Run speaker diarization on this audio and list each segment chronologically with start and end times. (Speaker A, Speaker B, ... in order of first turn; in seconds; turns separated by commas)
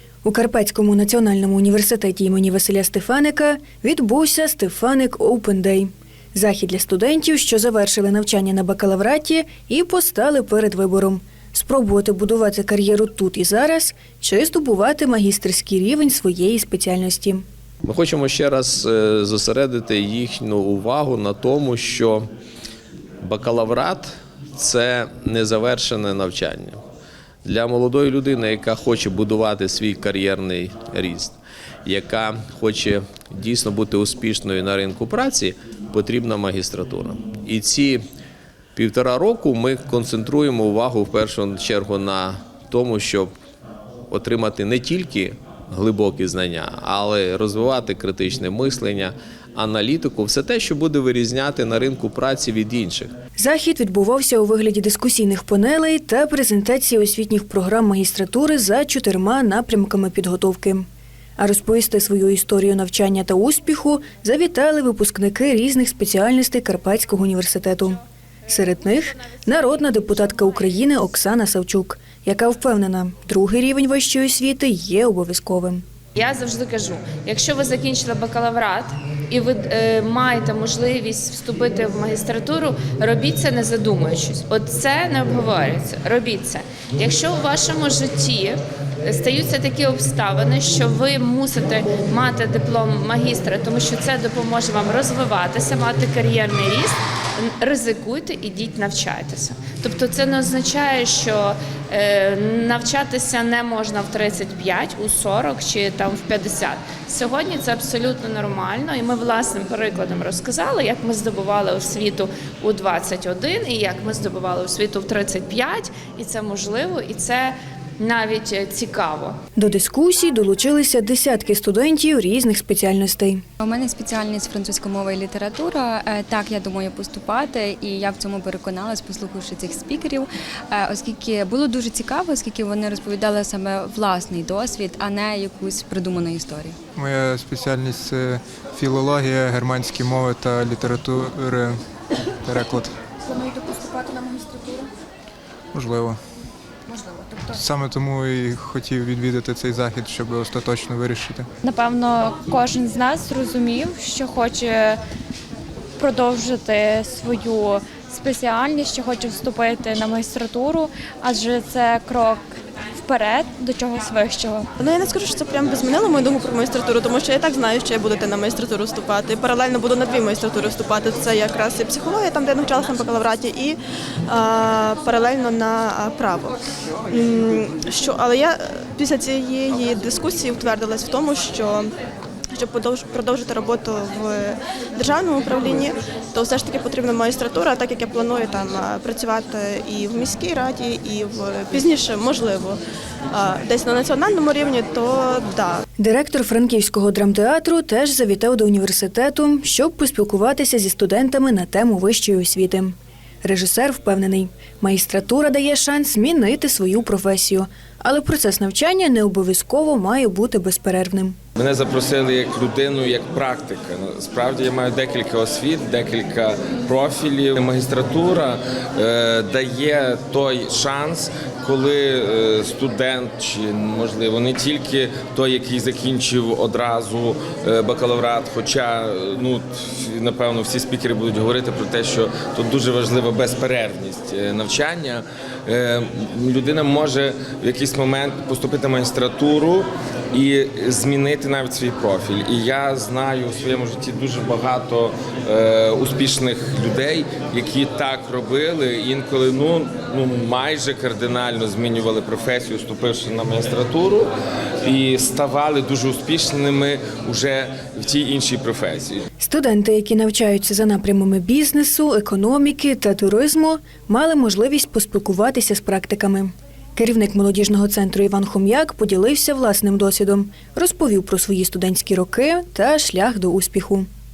Speaker A: 0.2-17.4, Speaker B: 17.8-22.3, Speaker B: 23.2-26.8, Speaker B: 27.4-38.0, Speaker B: 38.7-43.3, Speaker B: 44.1-53.1, Speaker A: 53.4-60.9, Speaker A: 61.4-75.8, Speaker C: 76.1-119.4, Speaker A: 119.6-123.4, Speaker D: 123.6-136.8, Speaker E: 136.9-141.8, Speaker E: 142.4-142.9, Speaker E: 145.7-146.2, Speaker E: 147.5-151.5, Speaker F: 151.6-155.0, Speaker F: 156.0-162.5, Speaker F: 163.0-164.7, Speaker G: 164.8-176.5, Speaker G: 177.1-181.9, Speaker G: 182.5-195.8, Speaker A: 196.0-211.3, Speaker H: 211.6-254.3, Speaker H: 254.8-259.2, Speaker A: 259.4-274.1